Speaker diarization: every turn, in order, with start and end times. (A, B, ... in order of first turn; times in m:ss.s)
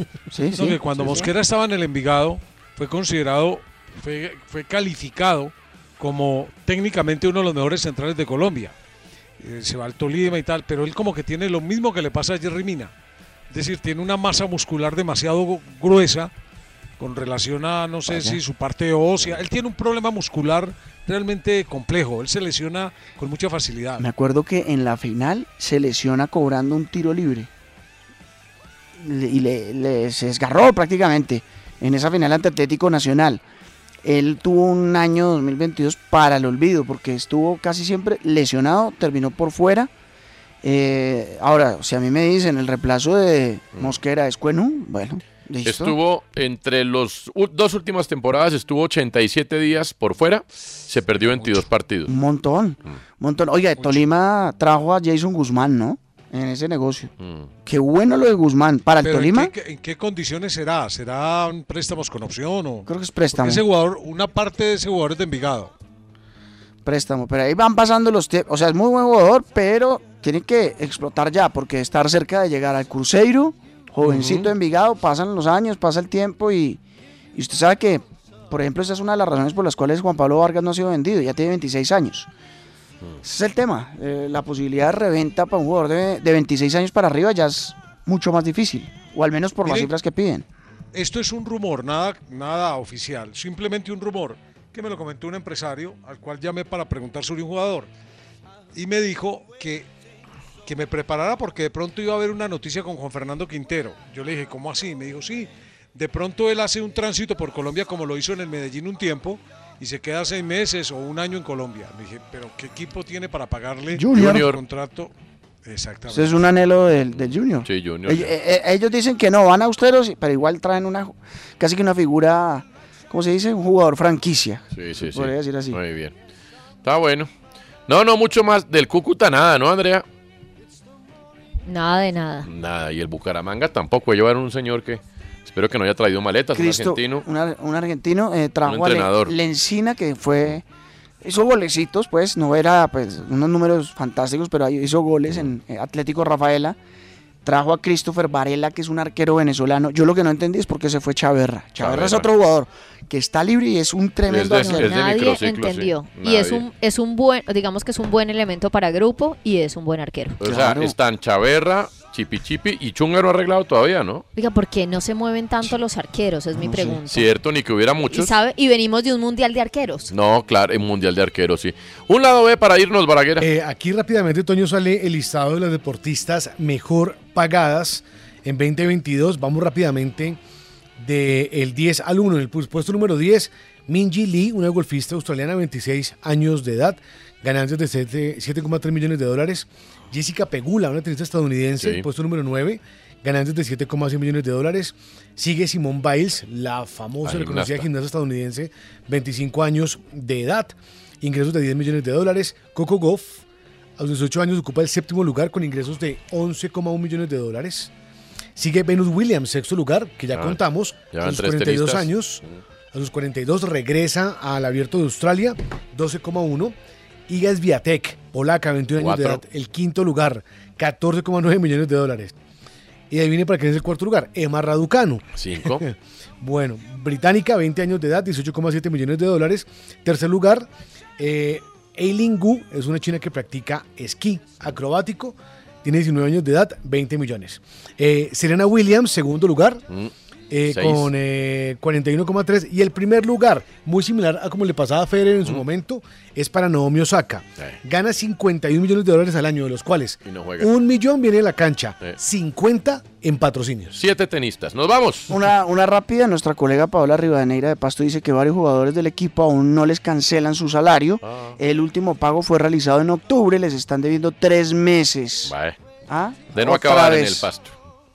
0:00.3-0:01.3 A
0:00.5-0:08.8 B
0:09.4-0:12.9 B
0:13.5-0:16.3 B
0:17.0-0:24.0 B
0:18.1-0:18.4 A
0:24.0-0:27.5 A
0:29.0-0:33.4 A
0:34.0-0:39.9 A
0:40.6-0:46.0 A
0:45.6-0:52.2 C
0:52.1-0:57.1 A
0:57.2-0:57.5 C
0:57.7-0:59.5 A
0:59.0-1:05.7 B
1:02.9-1:03.6 A
1:06.8-1:16.8 A
1:14.0-1:14.5 C
1:17.4-1:22.3 A
1:23.2-1:30.4 A
1:29.6-1:29.9 B
1:30.9-1:37.9 B
1:38.7-1:39.9 B
1:40.6-1:55.1 B
1:53.9-1:54.5 A
1:54.1-1:54.6 C
1:55.6-1:56.4 B
1:56.1-2:05.8 A
1:57.2-1:58.4 C
2:04.8-2:06.1 C
2:06.8-2:07.3 C
2:07.9-2:10.0 C
2:11.7-2:12.5 D
2:12.4-2:17.3 C
2:16.6-2:20.6 A
2:18.6-2:19.4 C
2:21.2-2:26.8 A
2:27.4-2:35.0 A
2:31.8-2:32.3 C
2:34.3-2:36.6 C
2:34.5-2:40.4 D
2:40.4-2:44.2 C
2:40.4-2:41.0 A
2:44.4-2:47.3 D
2:46.6-2:47.0 A
2:47.1-2:48.3 C
2:48.1-2:50.1 D
2:50.1-2:53.5 C
2:53.4-3:00.4 E
3:01.0-3:23.4 E
3:17.2-3:17.9 C
3:24.0-3:27.9 E
3:28.6-3:36.8 E
3:30.3-3:30.6 C
3:31.1-3:32.1 C
3:37.3-3:42.4 E
3:39.0-3:39.4 C
3:43.1-3:59.8 E
3:45.4-3:45.9 C
4:00.5-4:14.0 E
4:00.7-4:01.1 C
4:10.3-4:10.7 C
4:14.0-4:15.4 C
4:15.3-4:25.5 A
4:21.2-4:21.6 C
4:25.4-4:25.8 C
4:26.1-4:27.5 A
4:26.5-4:27.7 C